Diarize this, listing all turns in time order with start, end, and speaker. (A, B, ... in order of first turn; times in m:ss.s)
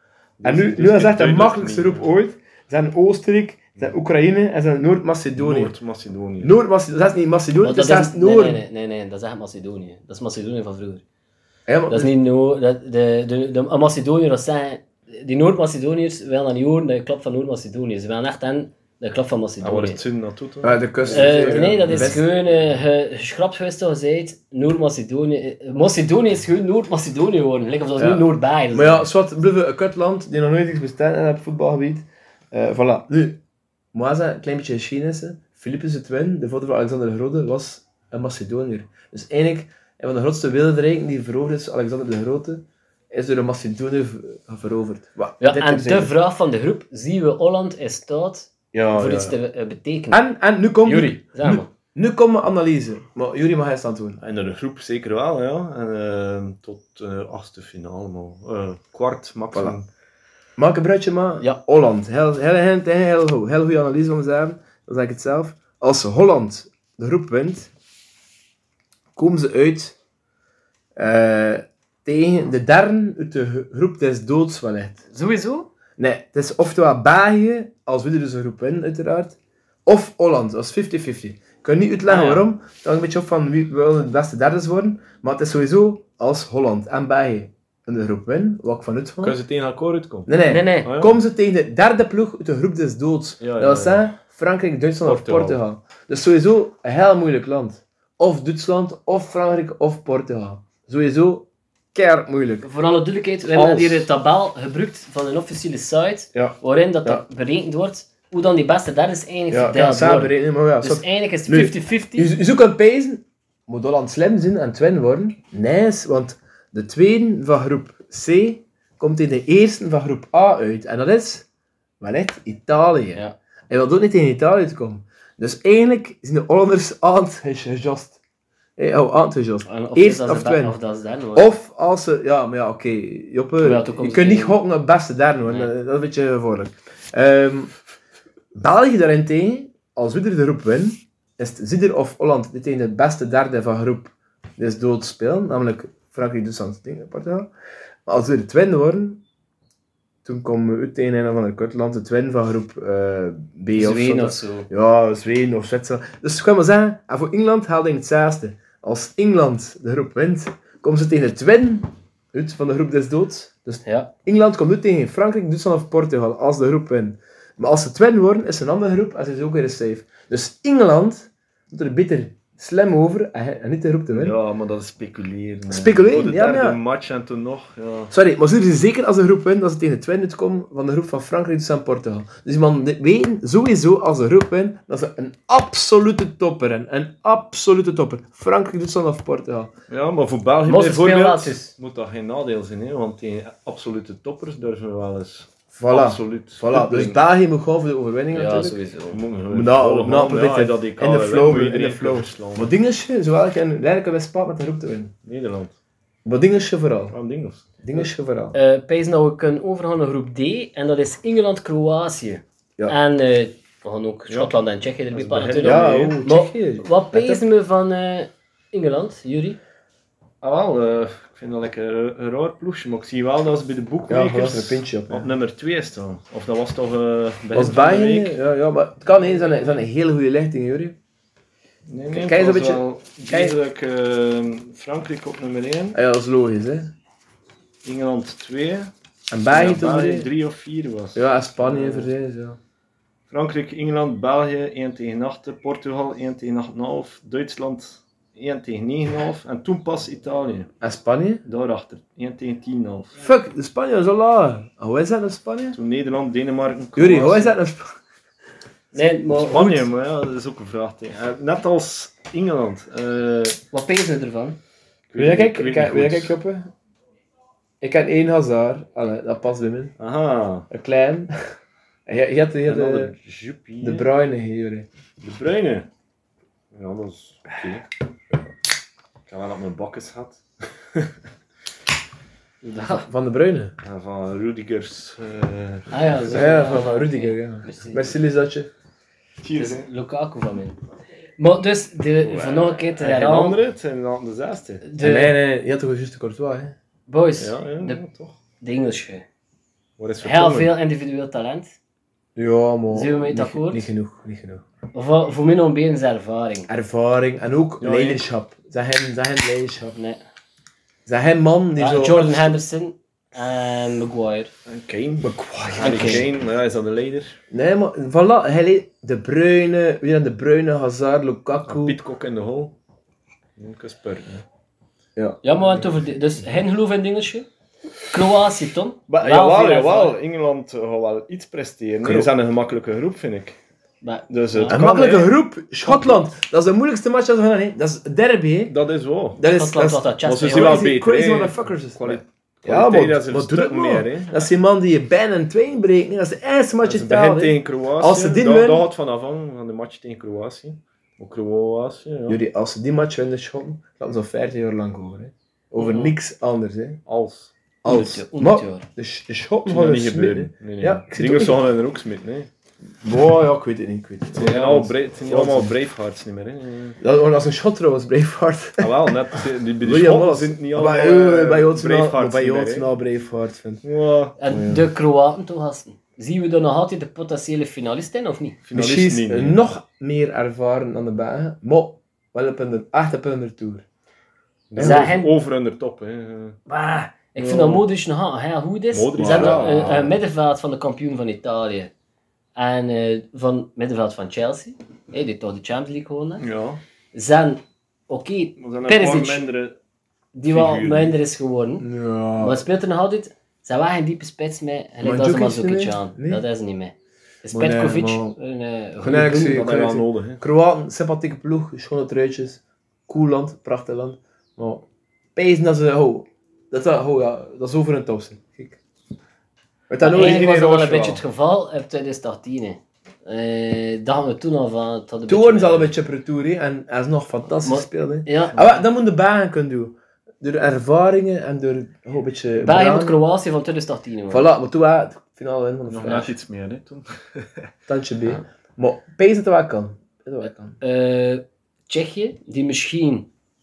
0:00.4-0:02.1 A
0:00.4-0:05.7 B
0:05.4-0:06.6 A
0:06.4-0:08.6 B
0:07.6-0:11.0 C
0:11.7-0:12.1 B
0:11.9-0:20.0 C
0:19.6-0:22.2 A
0:20.6-0:22.2 B
0:21.1-0:29.1 C
0:28.0-0:33.4 B
0:33.9-0:46.1 B
0:45.4-0:50.2 C
0:48.7-0:49.4 B
0:50.1-0:54.2 B
0:50.8-0:51.7 C
0:54.2-0:59.9 A
1:00.6-1:07.7 B
1:09.2-1:10.0 B
1:11.0-1:15.0 B
1:15.1-1:15.7 C
1:16.0-1:29.4 B
1:22.1-1:22.5 C
1:29.2-1:30.3 A
1:30.3-1:42.7 B
1:30.5-1:30.9 C
1:30.8-1:31.2 A
1:33.4-1:34.1 A
1:35.0-1:35.6 A
1:42.6-1:52.3 C
1:43.6-1:44.0 B
1:46.4-1:47.2 B
1:49.5-2:01.5 B
2:02.0-2:08.2 B
2:08.8-2:10.8 B
2:09.7-2:11.5 C
2:11.4-2:17.7 B
2:13.6-2:14.6 C
2:18.5-2:27.5 B
2:28.1-2:29.2 B
2:30.2-2:54.4 B
2:33.7-2:34.7 C
2:43.8-2:44.1 C
2:54.1-2:58.1 A
2:55.7-2:56.8 B
2:58.1-3:09.7 B
3:09.9-3:17.2 A
3:10.7-3:11.7 C
3:15.7-3:18.8 B
3:18.3-3:19.2 C
3:19.1-3:22.7 A
3:19.5-3:25.1 B
3:25.2-3:25.8 A
3:26.2-3:27.2 B
3:27.1-3:27.8 A
3:27.8-3:28.6 B
3:28.5-3:39.6 C
3:34.3-3:34.5 A
3:35.1-3:36.2 A
3:35.6-3:37.4 B
3:40.4-3:48.4 A
3:44.1-3:45.3 B
3:47.5-3:51.0 B
3:51.9-3:56.0 A
3:52.2-3:53.6 B
3:55.9-3:56.9 B
3:57.8-3:58.9 A
3:59.3-4:00.3 B
3:59.5-4:02.1 A
4:01.2-4:02.6 B
4:03.3-4:10.7 A
4:10.8-4:11.4 B
4:11.4-4:13.2 A
4:13.2-4:15.8 B
4:15.7-4:17.6 A
4:17.0-4:18.0 B
4:18.9-4:19.8 C
4:19.3-4:23.6 A
4:23.7-4:24.6 C
4:25.1-4:26.4 A
4:25.2-4:26.7 B
4:27.8-4:29.9 B
4:30.0-4:30.7 A
4:30.7-4:31.3 B
4:32.1-4:33.1 B
4:32.6-4:34.1 A
4:33.8-4:34.9 B
4:35.2-4:35.9 A
4:36.7-4:38.4 A
4:39.3-4:41.1 A
4:42.6-4:43.1 C
4:43.0-4:43.7 B
4:43.8-4:46.6 A
4:45.9-4:48.1 C
4:46.3-4:48.7 B
4:49.4-4:49.9 A
4:49.6-4:50.8 C
4:51.4-4:53.6 C
4:52.2-4:54.8 A
4:54.8-4:55.4 C
4:55.0-4:56.8 B
4:57.1-4:58.0 C
4:57.4-4:58.4 A
4:58.6-4:59.2 C
5:00.0-5:00.8 A
5:00.2-5:01.7 C
5:02.4-5:04.6 B
5:02.9-5:03.9 C
5:04.9-5:06.7 C
5:06.7-5:10.0 B
5:07.8-5:08.3 A
5:10.0-5:10.2 C
5:11.1-5:12.5 B
5:11.8-5:14.5 C
5:14.7-5:17.4 A
5:15.2-5:16.3 B
5:15.8-5:16.2 C
5:17.5-5:22.0 B
5:21.7-5:22.8 A
5:23.6-5:24.4 A
5:25.2-5:25.4 B
5:25.4-5:27.5 C
5:28.1-5:30.2 C
5:29.1-5:33.6 A
5:32.0-5:32.3 B
5:34.0-5:34.9 C
5:34.3-5:35.3 A
5:34.7-5:38.8 B
5:38.7-5:39.4 A
5:39.4-5:48.9 B
5:39.5-5:40.9 C
5:40.2-5:44.5 A
5:46.8-5:52.4 A
5:52.3-5:57.0 B
5:55.8-5:56.1 C
5:57.1-5:57.5 A
5:57.8-6:01.7 B
5:57.9-5:58.9 C
5:59.6-6:02.5 A
6:03.0-6:05.7 B
6:04.3-6:07.0 A
6:07.0-6:09.1 B
6:08.8-6:12.9 A
6:09.8-6:13.8 B
6:13.8-6:14.4 A
6:14.4-6:18.6 C
6:14.5-6:14.8 B
6:18.6-6:19.6 A
6:18.7-6:23.8 B
6:24.7-6:26.6 A
6:24.8-6:25.1 B
6:24.8-6:25.3 C
6:26.7-6:31.9 C
6:27.4-6:27.8 A
6:28.9-6:30.1 A
6:29.2-6:30.1 B
6:32.6-6:36.4 C
6:36.4-6:36.8 A
6:37.1-6:39.4 C
6:38.6-6:39.8 A
6:40.4-6:41.9 C
6:40.5-6:41.2 A
6:41.8-6:42.6 B
6:42.4-6:46.9 C
6:45.0-6:46.4 B
6:47.4-6:49.8 C
6:47.5-6:48.4 B
6:49.0-6:54.8 B
6:49.1-6:50.4 A
6:55.4-6:58.8 B
6:59.9-7:01.2 B
7:00.0-7:05.9 C
7:00.1-7:01.1 A
7:05.3-7:13.2 B
7:07.6-7:08.8 C
7:12.6-7:14.5 C
7:14.3-7:16.3 B
7:15.9-7:17.7 A
7:17.9-7:20.8 B
7:20.4-7:23.3 C